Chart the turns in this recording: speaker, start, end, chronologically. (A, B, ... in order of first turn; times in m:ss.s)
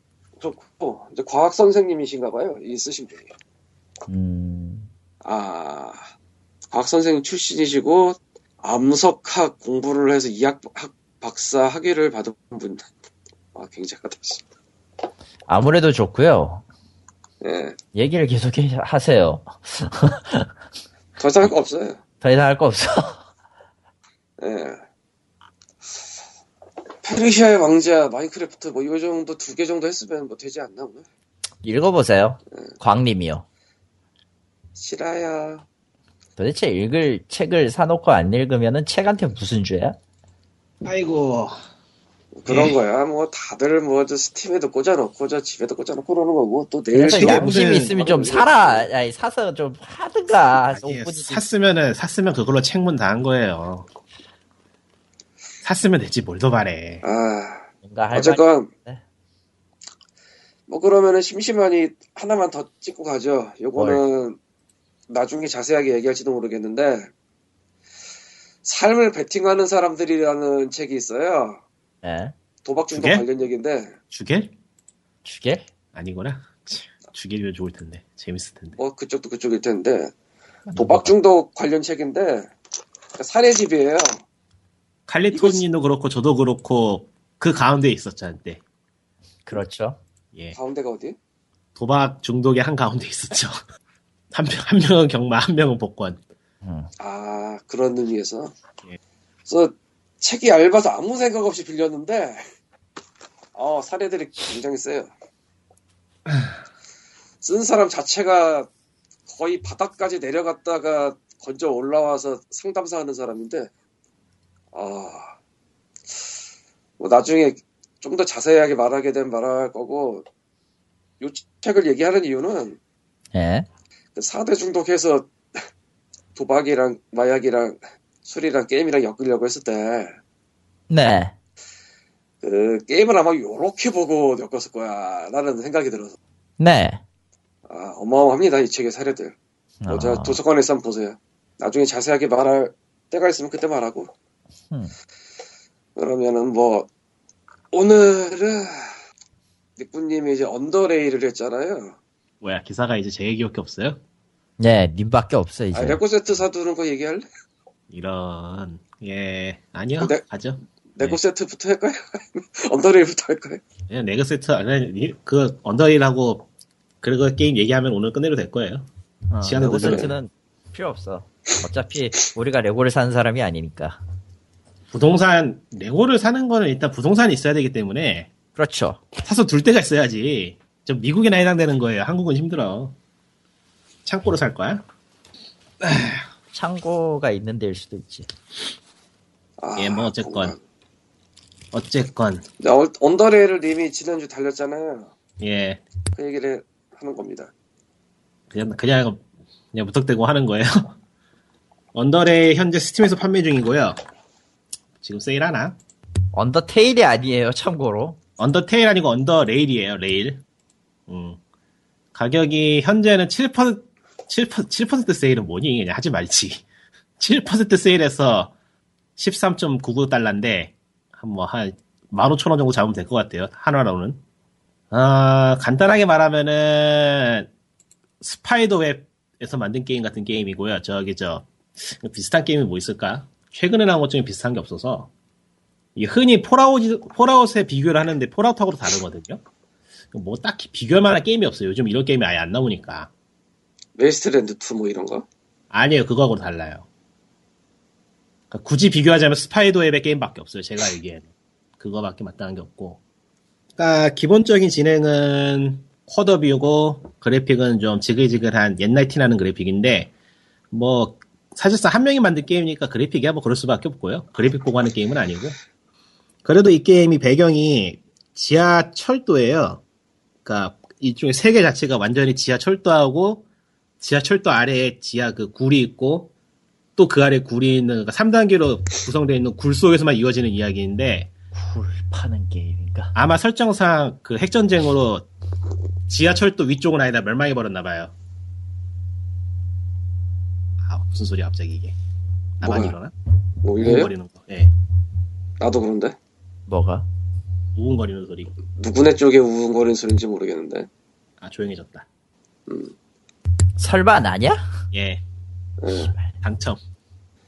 0:00.4-0:03.3 A
0:04.1-0:04.9 B
0:05.2-0:06.0 A
0:06.7-0:12.8 A
0:13.5-0:14.4 A
0:15.5-0:16.6 B
0:17.4-0:17.8 A
0:17.9-0:20.5 B
0:21.2-0:22.0 A
0:22.2-0:23.2 B
0:24.4-0:24.8 A
0:27.0-0:31.0 A
0:31.6-0:33.4 B
0:34.8-0:35.6 A
0:36.4-0:40.0 B
0:40.8-0:41.6 C
0:42.4-0:48.9 A
0:42.5-0:42.8 C
0:46.9-0:51.4 B
0:47.1-0:47.9 C
0:50.7-0:53.9 C
0:55.6-0:57.0 C
0:57.0-0:58.7 A
0:57.8-0:59.0 B
1:00.7-1:04.4 A
1:03.8-1:04.0 B
1:05.1-1:07.1 A
1:08.6-1:11.6 A
1:12.0-1:12.3 B
1:12.6-1:14.0 A
1:12.9-1:13.2 C
1:14.1-1:14.5 C
1:15.2-1:15.7 B
1:15.9-1:18.8 C
1:18.8-1:20.1 A
1:20.7-1:21.0 B
1:20.8-1:22.5 A
1:23.2-1:24.2 A
1:25.1-1:28.6 C
1:25.3-1:25.6 A
1:29.4-1:30.0 B
1:30.5-1:31.2 A
1:31.8-1:33.6 C
1:34.3-1:36.2 C
1:36.6-1:36.9 B
1:37.0-1:38.5 A
1:39.5-1:42.4 A
1:43.5-1:45.1 A
1:47.4-1:48.7 A
1:49.3-1:53.7 A
1:54.7-1:55.3 A
1:57.0-2:00.2 A
2:01.2-2:02.8 A
2:03.3-2:03.6 B
2:04.2-2:05.6 A
2:06.4-2:10.2 A
2:10.9-2:11.3 B
2:12.4-2:16.2 A
2:16.6-2:17.0 B
2:17.7-2:19.3 A
2:19.8-2:20.4 B
2:19.9-2:24.1 A
2:26.0-2:26.9 A
2:27.7-2:28.9 A
2:29.8-2:32.0 A
2:32.4-2:34.0 C
2:34.6-2:36.0 B
2:35.7-2:37.2 A
2:37.9-2:41.2 C
2:40.0-2:40.2 A
2:40.9-2:43.6 A
2:43.9-2:46.5 C
2:47.0-2:50.1 C
2:49.3-2:54.0 B
2:49.8-2:50.1 A
2:54.9-2:58.3 C
2:58.6-2:59.0 B
2:59.2-3:02.9 C
3:04.0-3:04.8 C
3:05.8-3:06.2 C
3:06.5-3:08.3 B
3:09.6-3:10.6 A
3:09.8-3:10.5 C
3:11.7-3:12.4 C
3:12.6-3:15.1 A
3:15.4-3:15.8 C
3:16.2-3:17.5 A
3:18.5-3:20.9 C
3:21.9-3:24.0 C
3:25.0-3:25.8 C
3:26.3-3:28.2 B
3:28.4-3:30.4 C
3:31.1-3:31.4 C
3:32.1-3:36.6 C
3:37.2-3:38.5 C
3:39.2-3:44.2 C
3:44.9-3:47.5 C
3:48.2-3:55.1 C
3:56.0-3:59.4 C
4:00.1-4:03.1 C
4:04.0-4:05.2 A
4:05.7-4:06.8 C
4:08.5-4:11.3 C
4:11.8-4:13.0 C
4:13.8-4:20.1 C
4:20.7-4:25.6 C
4:26.4-4:29.8 C
4:30.4-4:33.4 C
4:34.0-4:36.3 C
4:37.0-4:41.3 C
4:41.5-4:43.1 B
4:43.1-4:45.3 C
4:46.1-4:48.1 C
4:50.8-4:51.9 C
4:52.6-4:53.1 C
4:52.6-4:52.9 A
4:53.6-4:54.1 A
4:53.8-4:54.7 C
4:55.6-4:56.2 A
4:56.7-4:57.1 B
4:57.7-4:58.5 C
4:58.7-5:00.9 A
5:01.4-5:02.1 C
5:02.7-5:02.9 A
5:03.8-5:04.6 B
5:04.9-5:05.2 C
5:05.8-5:06.1 A
5:06.4-5:06.8 C